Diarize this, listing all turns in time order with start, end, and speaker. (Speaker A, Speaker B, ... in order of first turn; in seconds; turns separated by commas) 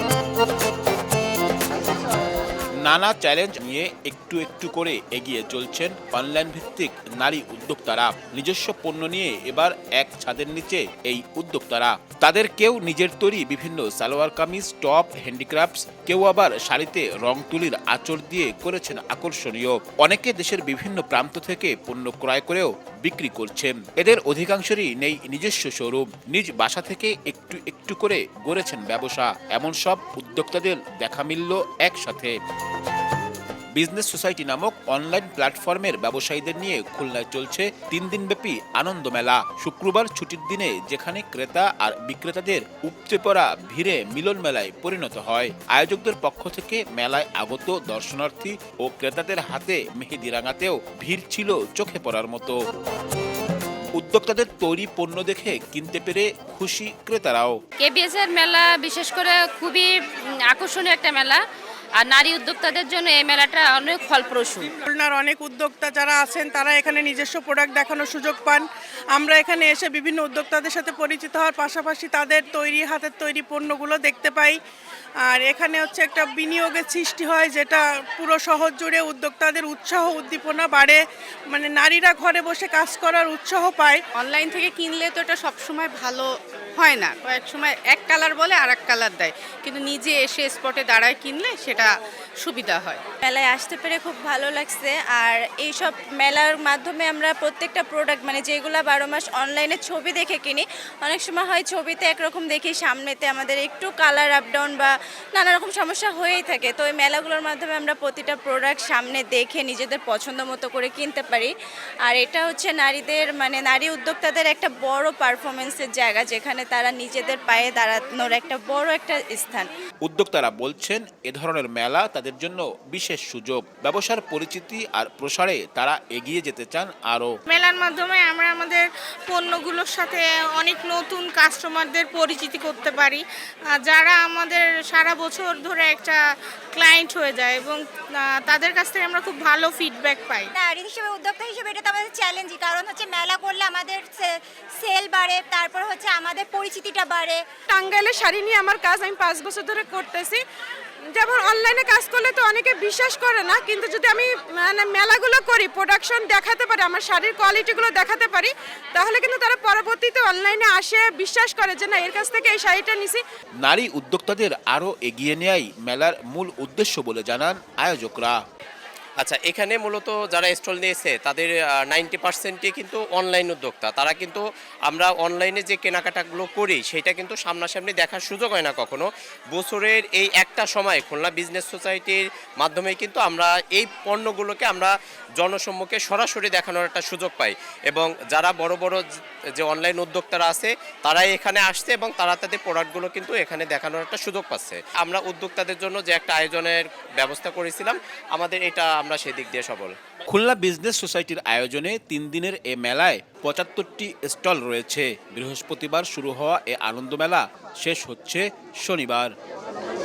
Speaker A: 2.8-32.4, Speaker A: 33.7-52.6, Speaker A: 53.9-57.6, Speaker B: 57.8-61.4, Speaker B: 62.0-64.7, Speaker C: 64.9-74.6, Speaker C: 75.2-84.0, Speaker D: 84.2-91.9, Speaker D: 92.4-93.0, Speaker E: 93.2-111.5, Speaker E: 112.1-119.7, Speaker A: 120.0-127.3, Speaker F: 127.5-133.2, Speaker F: 133.8-136.2, Speaker F: 136.7-137.8, Speaker F: 138.4-140.5, Speaker G: 140.5-147.4, Speaker H: 147.7-150.4, Speaker H: 151.1-163.2, Speaker A: 163.6-168.3, Speaker I: 169.2-189.0, Speaker I: 189.6-199.9, Speaker A: 200.3-209.3